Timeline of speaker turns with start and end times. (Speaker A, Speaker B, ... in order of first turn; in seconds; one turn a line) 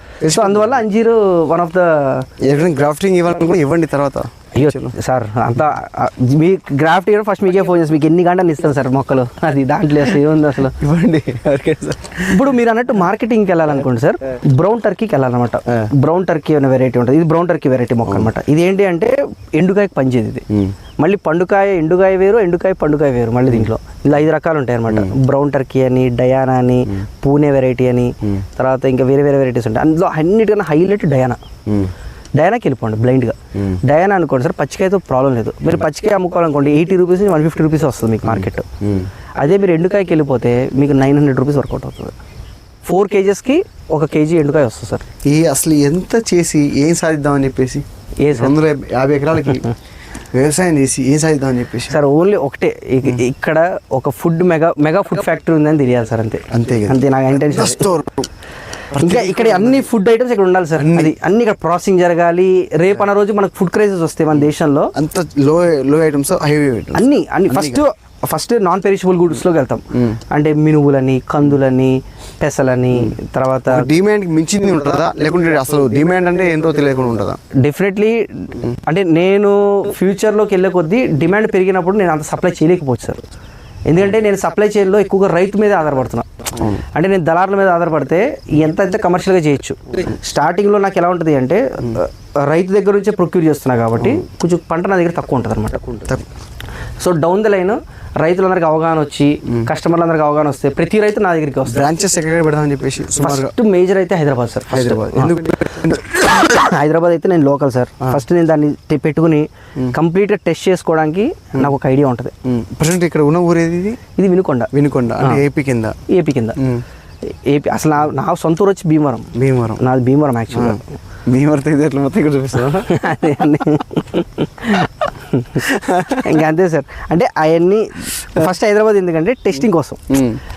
Speaker A: 0.2-0.8
Speaker B: 0.3-2.3
Speaker A: 2.4-4.9
Speaker B: 4.5-10.7
Speaker A: 10.7-12.5
Speaker B: 12.3-20.4
Speaker B: 21.0-31.4
Speaker A: 31.7-31.9
Speaker B: 32.4-38.7
Speaker A: 38.8-39.1
Speaker B: 39.4-42.1
Speaker B: 42.8-45.0
Speaker A: 45.2-49.7
Speaker B: 48.2-48.5
Speaker A: 50.3-52.0
Speaker B: 51.9-57.9
Speaker A: 56.5-58.3
Speaker A: 58.9-59.9
Speaker B: 58.9-64.9
Speaker A: 60.8-61.1
Speaker A: 64.9-67.8
Speaker B: 66.9-73.9
Speaker A: 73.7-77.4
Speaker B: 77.5-83.2
Speaker B: 83.9-96.0
Speaker B: 97.0-101.8
Speaker A: 101.6-103.5
Speaker B: 103.2-105.4
Speaker A: 104.7-106.2
Speaker B: 106.0-112.3
Speaker A: 112.4-114.0
Speaker B: 114.2-115.4
Speaker A: 114.7-116.0
Speaker B: 116.1-116.6
Speaker A: 116.6-116.8
Speaker B: 117.2-121.0
Speaker A: 119.3-119.8
Speaker A: 120.5-123.3
Speaker B: 122.8-130.1
Speaker A: 125.6-126.4
Speaker A: 130.1-130.4